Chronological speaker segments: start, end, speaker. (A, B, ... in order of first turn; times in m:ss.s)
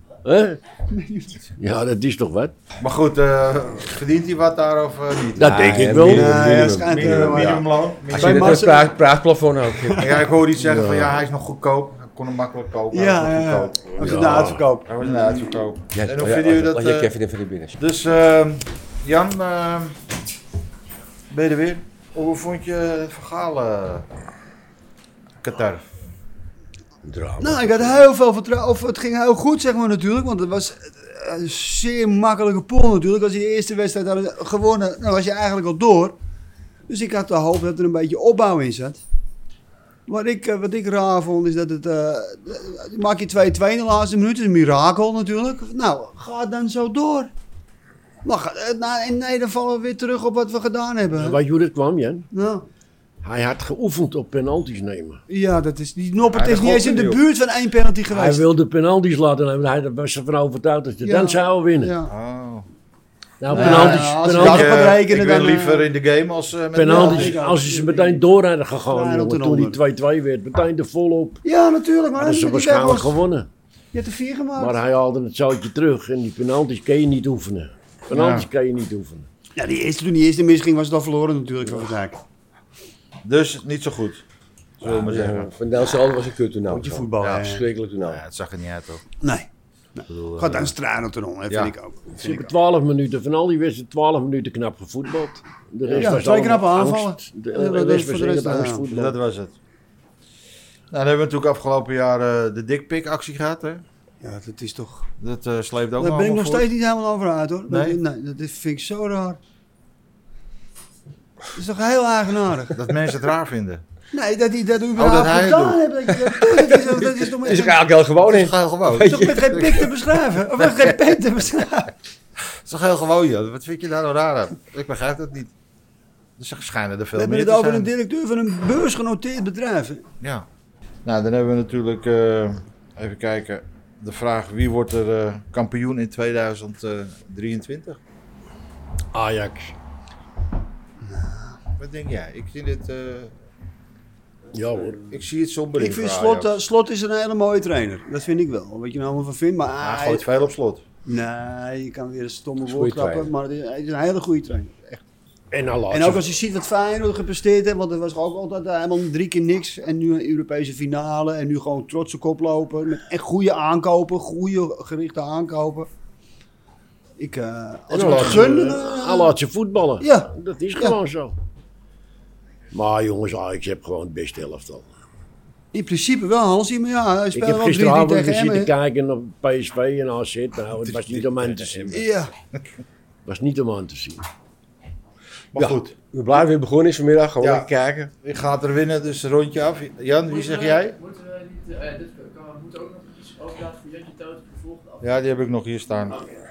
0:00.2-0:00.6 A
0:00.9-0:01.4 B
0:01.6-0:02.6 A
0:02.8-0:08.7 C
0:05.4-0:06.6 A
0:05.5-0:10.0 D
0:06.1-0:09.0 B
0:09.7-0:10.2 B
0:10.0-0:17.1 C
0:10.6-0:11.2 A
0:12.9-0:14.9 B
0:14.0-0:14.6 A
0:15.9-0:17.8 D
0:17.8-0:20.0 C
0:21.3-0:24.1 C
0:25.4-0:25.8 C
0:27.1-0:27.8 D
0:27.1-0:27.7 A
0:27.4-0:36.2 B
0:36.9-0:39.0 B
0:40.1-0:47.3 B
0:48.2-0:51.4 B
0:51.1-0:52.3 A
0:52.3-0:52.7 B
0:53.2-0:55.2 A
0:55.3-0:58.4 B
0:56.3-0:57.2 C
0:58.1-1:02.0 A
1:01.0-1:02.1 B
1:02.1-1:02.7 C
1:03.4-1:05.0 A
1:03.5-1:05.8 B
1:03.5-1:07.4 C
1:06.7-1:11.4 A
1:06.8-1:08.2 B
1:08.9-1:09.8 B
1:11.4-1:13.1 B
1:12.2-1:13.5 A
1:13.9-1:14.8 B
1:14.6-1:19.3 A
1:18.1-1:18.5 C
1:19.6-1:22.2 B
1:23.2-1:24.2 C
1:24.8-1:25.5 C
1:24.8-1:28.2 D
1:26.7-1:27.7 B
1:27.2-1:29.0 C
1:29.2-1:32.5 B
1:30.1-1:30.7 C
1:31.5-1:31.7 C
1:32.1-1:39.2 A
1:35.9-1:38.9 B
1:38.9-1:39.6 C
1:40.9-1:43.8 C
1:44.2-1:45.1 B
1:45.2-1:46.7 C
1:46.0-1:49.4 B
1:47.7-1:48.0 C
1:51.5-1:52.8 B
1:52.7-1:53.8 C
1:54.1-1:57.8 B
1:55.0-1:56.6 C
1:56.9-1:59.9 D
1:58.3-1:59.9 C
1:59.0-2:01.9 B
2:02.6-2:05.5 C
2:06.4-2:07.9 C
2:07.2-2:10.0 B
2:10.2-2:10.5 C
2:11.0-2:18.0 C
2:19.1-2:19.8 A
2:21.0-2:21.6 B
2:21.8-2:23.3 C
2:24.5-2:25.0 A
2:25.1-2:26.5 C
2:25.8-2:30.2 B
2:29.8-2:30.8 C
2:31.1-2:35.0 B
2:32.7-2:33.3 D
2:35.5-2:36.3 A
2:35.9-2:45.9 B
2:47.2-2:49.4 B
2:47.9-2:51.4 A
2:50.0-2:51.0 B
2:52.7-2:54.9 A
2:55.7-2:58.7 B
2:57.3-3:02.1 A
3:00.8-3:02.1 C
3:01.9-3:02.3 B
3:03.3-3:04.3 A
3:05.5-3:05.9 C
3:05.6-3:08.1 D
3:07.4-3:11.0 C
3:10.3-3:15.0 E
3:15.0-3:16.2 C